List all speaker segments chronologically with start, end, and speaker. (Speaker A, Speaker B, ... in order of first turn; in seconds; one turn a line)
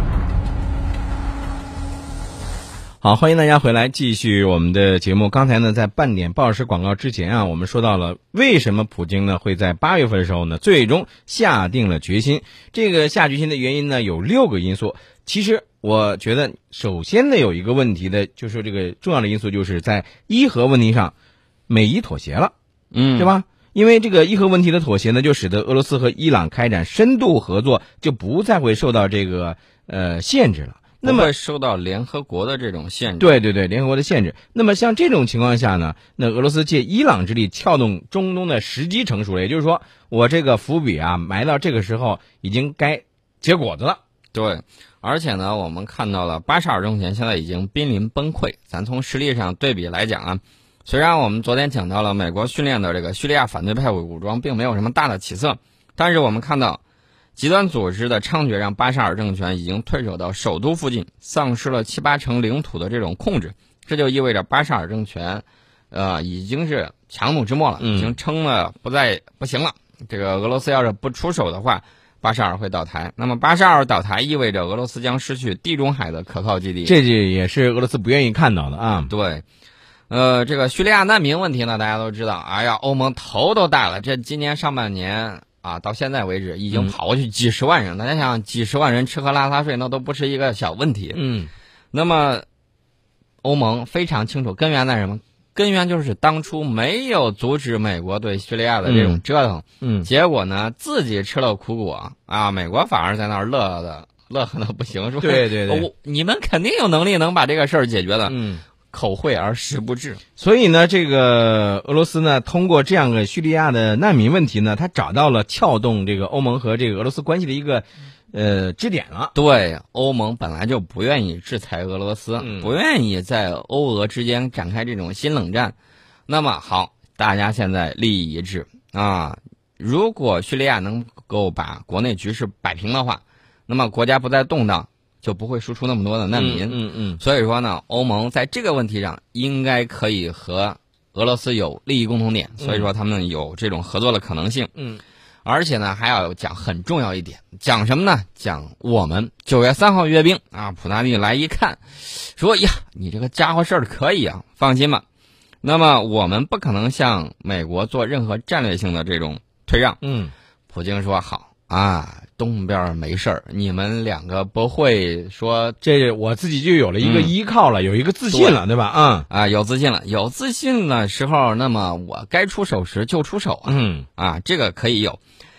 Speaker A: 3.0-21.1
Speaker A: 21.7-22.5
Speaker B: 22.9-23.3
Speaker A: 23.1-31.3
Speaker B: 31.0-33.4
Speaker A: 33.2-44.0
Speaker B: 44.3-56.8
Speaker B: 57.4-77.0
Speaker A: 67.8-68.2
Speaker A: 76.8-79.1
Speaker B: 79.1-79.4
Speaker B: 80.1-91.2
Speaker A: 91.1-91.5
Speaker B: 91.9-92.4
Speaker B: 93.4-108.4
Speaker A: 98.8-99.2
Speaker A: 99.8-100.1
Speaker A: 105.2-105.9
Speaker A: 108.2-108.6
Speaker B: 108.9-110.2
Speaker A: 110.4-119.3
Speaker B: 119.3-125.7
Speaker A: 122.4-122.7
Speaker B: 126.3-144.7
Speaker A: 136.3-137.2
Speaker A: 142.6-142.9
Speaker A: 144.8-145.0
Speaker B: 145.4-155.0
Speaker B: 155.6-160.0
Speaker A: 160.0-160.3
Speaker B: 160.7-165.8
Speaker A: 165.8-169.3
Speaker B: 167.0-167.3
Speaker B: 168.3-168.6
Speaker B: 169.3-175.2
Speaker A: 173.7-174.1